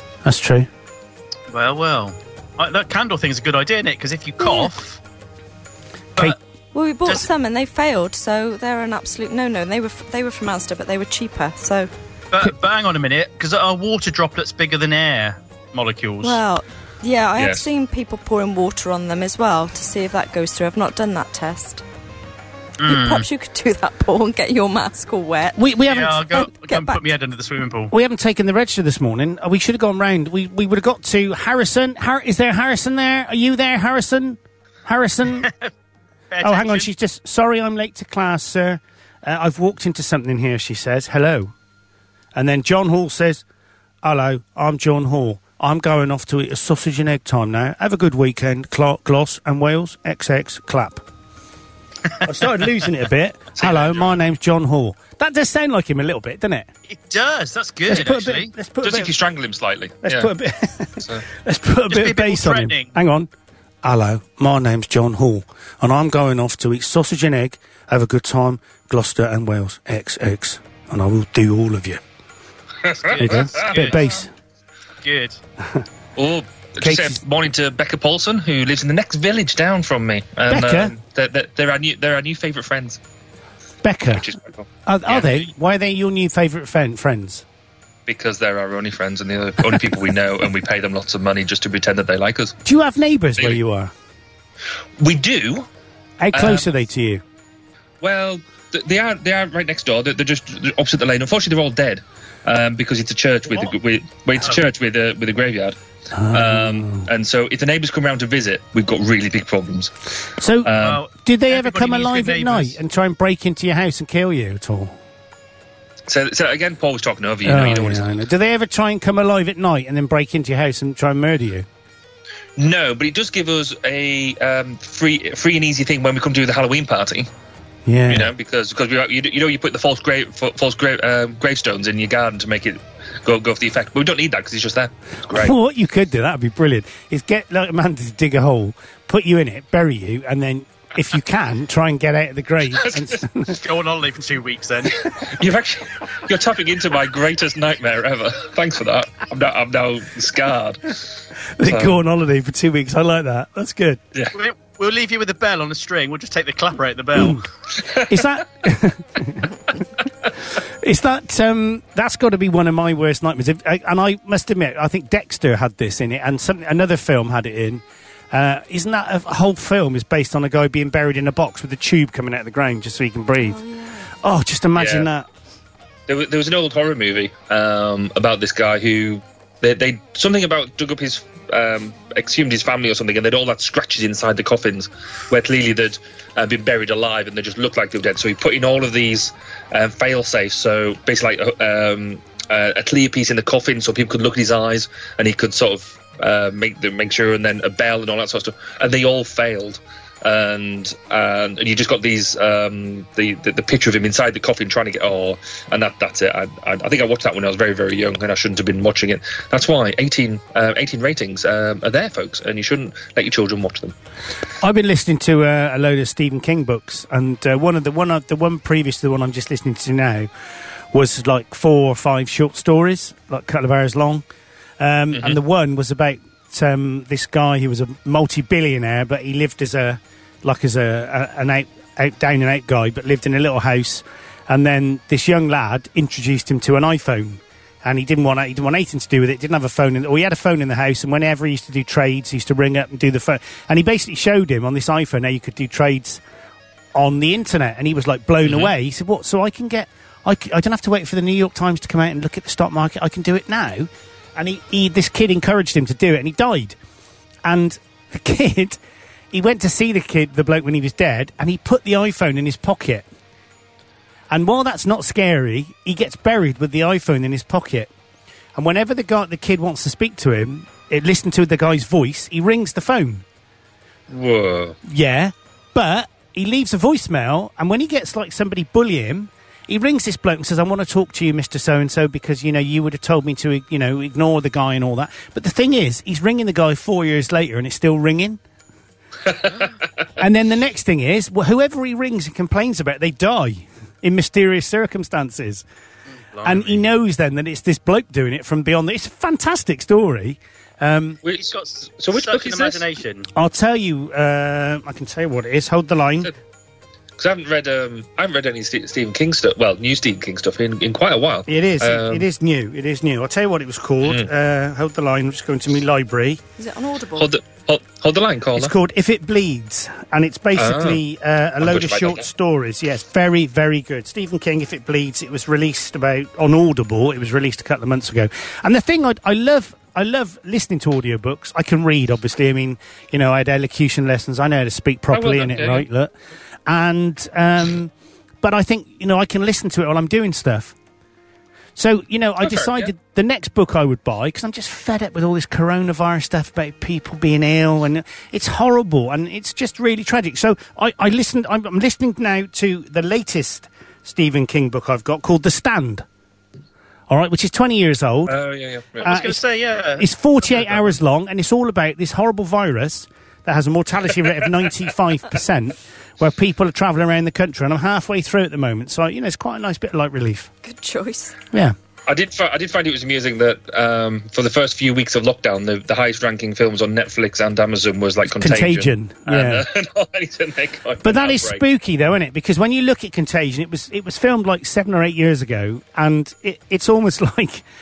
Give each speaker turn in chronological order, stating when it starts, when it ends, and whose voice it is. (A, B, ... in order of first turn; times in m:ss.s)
0:00.2-0:00.7 A
0:01.5-0:05.0 B
0:04.4-0:04.7 C
0:06.7-0:11.9 C
0:12.3-0:16.4 B
0:16.2-0:21.8 C
0:17.4-0:17.6 D
0:22.8-0:23.2 B
0:22.9-0:25.6 C
0:25.6-0:26.5 A
0:25.9-0:27.9 B
0:26.3-0:27.0 C
0:27.9-0:35.5 A
0:35.4-0:35.7 B
0:36.3-0:36.9 B
0:36.4-0:41.5 A
0:42.3-0:43.4 A
0:44.0-0:51.0 A
0:52.2-0:56.7 A
0:53.6-0:54.2 D
0:56.9-0:58.5 B
0:57.9-0:59.1 A
0:58.8-1:00.3 D
1:00.0-1:03.3 A
1:01.9-1:02.9 B
1:03.8-1:12.0 A
1:12.8-1:14.0 D
1:13.1-1:14.2 B
1:13.2-1:14.3 A
1:15.0-1:15.4 B
1:16.2-1:23.0 D
1:16.8-1:17.2 A
1:20.5-1:21.0 A
1:23.8-1:24.4 A
1:24.1-1:25.5 D
1:24.9-1:27.4 A
1:28.1-1:32.6 D
1:32.6-1:33.9 A
1:35.0-1:35.7 D
1:36.2-1:37.2 A
1:36.3-1:36.7 D
1:38.0-1:45.8 D
1:46.1-1:47.1 A
1:46.3-1:49.9 D
1:50.4-1:55.0 A
1:50.6-1:51.0 D
1:50.8-1:52.8 B
1:56.1-1:58.2 D
1:57.4-2:01.7 A
2:02.6-2:07.3 D
2:07.9-2:08.3 A
2:08.1-2:15.6 D
2:15.3-2:23.6 A
2:22.8-2:23.2 D
2:23.5-2:25.1 B
2:25.1-2:31.1 D
2:31.6-2:34.0 A
2:31.7-2:32.0 D
2:34.3-2:37.4 B
2:37.1-2:37.4 A
2:37.8-2:38.1 D
2:38.0-2:39.8 A
2:40.5-2:53.6 A
2:53.4-2:54.1 C
2:54.2-2:55.3 A
2:54.8-2:55.1 D
2:56.1-3:34.0 D
3:34.6-3:40.3 A
3:40.9-3:44.2 A
3:44.8-4:06.2 A
3:45.1-3:45.4 D
4:07.0-4:16.8 A
4:08.4-4:08.7 D
4:17.4-4:18.8 A
4:19.3-4:23.1 A
4:24.3-4:27.9 A
4:28.6-4:33.2 A
4:34.1-4:34.8 D
4:34.8-4:48.4 A
4:50.2-4:55.6 A
4:56.3-4:56.8 B
4:56.4-5:01.2 A
5:01.2-5:02.9 D
5:01.3-5:03.3 B
5:03.4-5:06.3 A
5:07.2-5:12.3 D
5:11.5-5:16.4 A
5:16.6-5:17.3 C
5:17.2-5:18.7 D
5:18.6-5:36.1 A
5:20.6-5:21.0 D
5:21.6-5:22.3 D
5:35.1-5:35.9 D
5:36.7-5:40.7 A
5:41.8-5:56.0 A
5:42.4-5:42.9 D
5:57.1-5:58.4 A
5:58.3-5:59.1 D
5:59.0-5:59.4 A
5:59.0-6:00.0 B
6:00.0-6:10.5 A
6:10.6-6:11.4 C
6:12.1-6:21.6 D
6:18.3-6:19.6 A
6:21.0-6:27.7 A